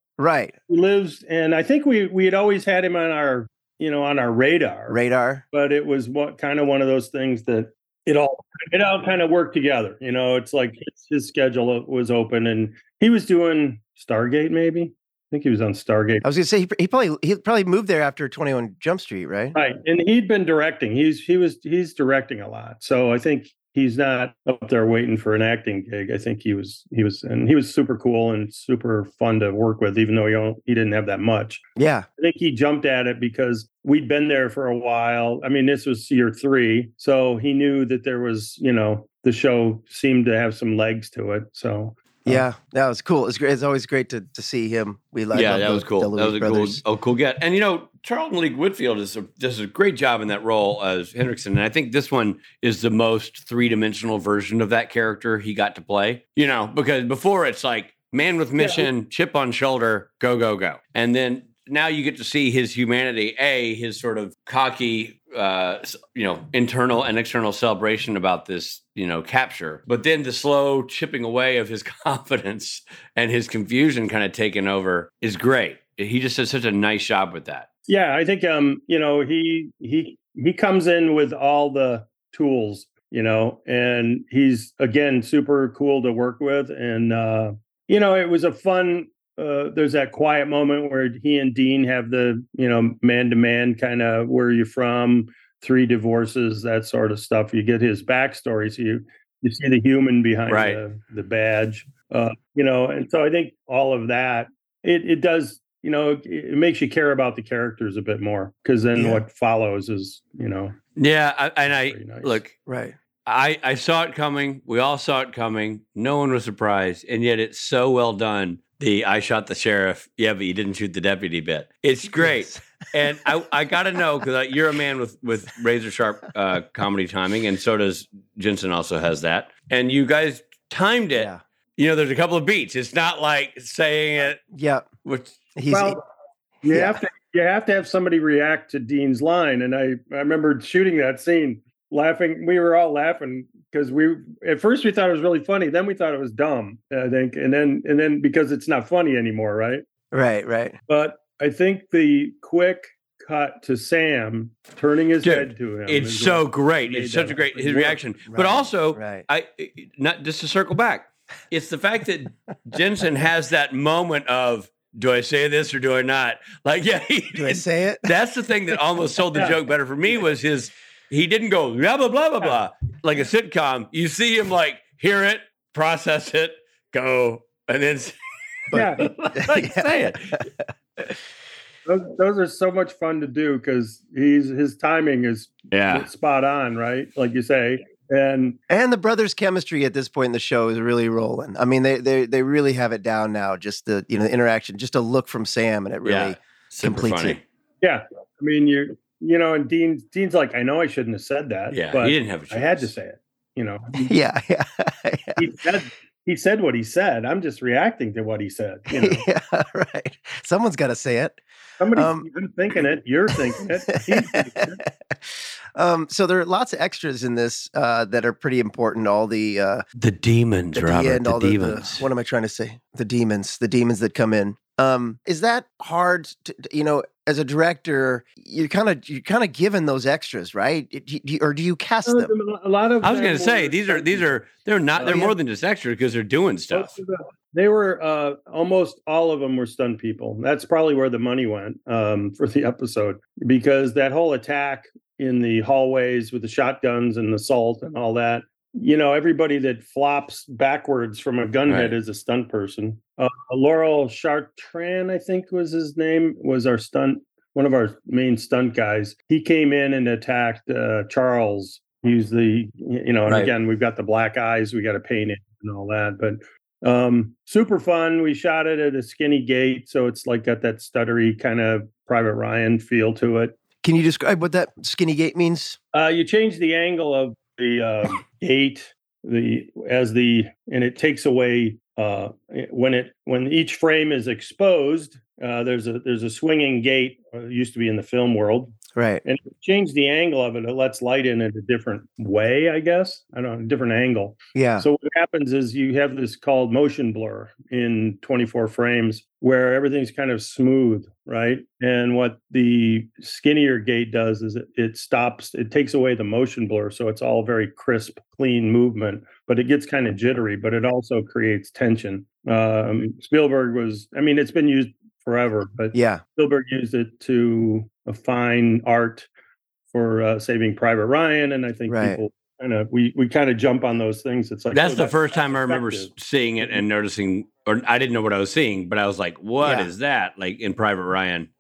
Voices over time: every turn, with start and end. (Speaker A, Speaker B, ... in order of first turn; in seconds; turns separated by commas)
Speaker A: 0.2-0.6, Speaker B: 0.7-5.0, Speaker A: 4.9-5.4, Speaker B: 5.5-16.2, Speaker A: 16.2-19.6, Speaker B: 19.6-31.6, Speaker A: 31.8-32.1, Speaker B: 32.2-42.4, Speaker A: 42.2-46.8, Speaker C: 45.3-77.7, Speaker B: 58.6-58.9, Speaker B: 77.9-110.8, Speaker C: 100.5-100.8, Speaker A: 109.0-109.2, Speaker C: 111.0-112.5, Speaker B: 111.9-112.4, Speaker A: 112.7-113.0, Speaker C: 113.2-134.4, Speaker A: 131.2-131.4, Speaker A: 134.4-134.9, Speaker C: 135.0-135.4, Speaker A: 135.6-136.0, Speaker B: 135.7-136.0, Speaker B: 136.6-149.8, Speaker A: 136.6-137.0, Speaker A: 150.1-150.8, Speaker B: 150.9-158.0, Speaker C: 155.2-178.2, Speaker A: 158.3-159.2, Speaker A: 167.3-168.1, Speaker C: 178.7-180.4, Speaker A: 178.7-179.9, Speaker B: 178.7-179.1, Speaker B: 181.9-188.6, Speaker C: 185.7-186.1, Speaker A: 188.7-197.4, Speaker C: 196.0-197.4, Speaker B: 197.8-204.1, Speaker C: 201.7-202.9, Speaker A: 204.0-205.4, Speaker B: 205.4-209.2, Speaker A: 208.9-211.4, Speaker B: 211.8-214.8, Speaker A: 211.9-212.3, Speaker A: 214.0-219.8, Speaker C: 220.0-222.1, Speaker A: 220.8-232.3, Speaker B: 232.1-234.3, Speaker C: 233.0-236.9, Speaker B: 235.0-235.3, Speaker B: 236.7-273.6, Speaker C: 251.7-251.9, Speaker C: 263.3-263.5, Speaker A: 273.8-275.8, Speaker B: 275.9-319.3, Speaker A: 288.9-289.2, Speaker A: 294.6-294.9, Speaker A: 315.9-316.2, Speaker B: 319.9-326.1, Speaker A: 321.9-322.2, Speaker C: 324.7-331.5, Speaker A: 329.6-329.9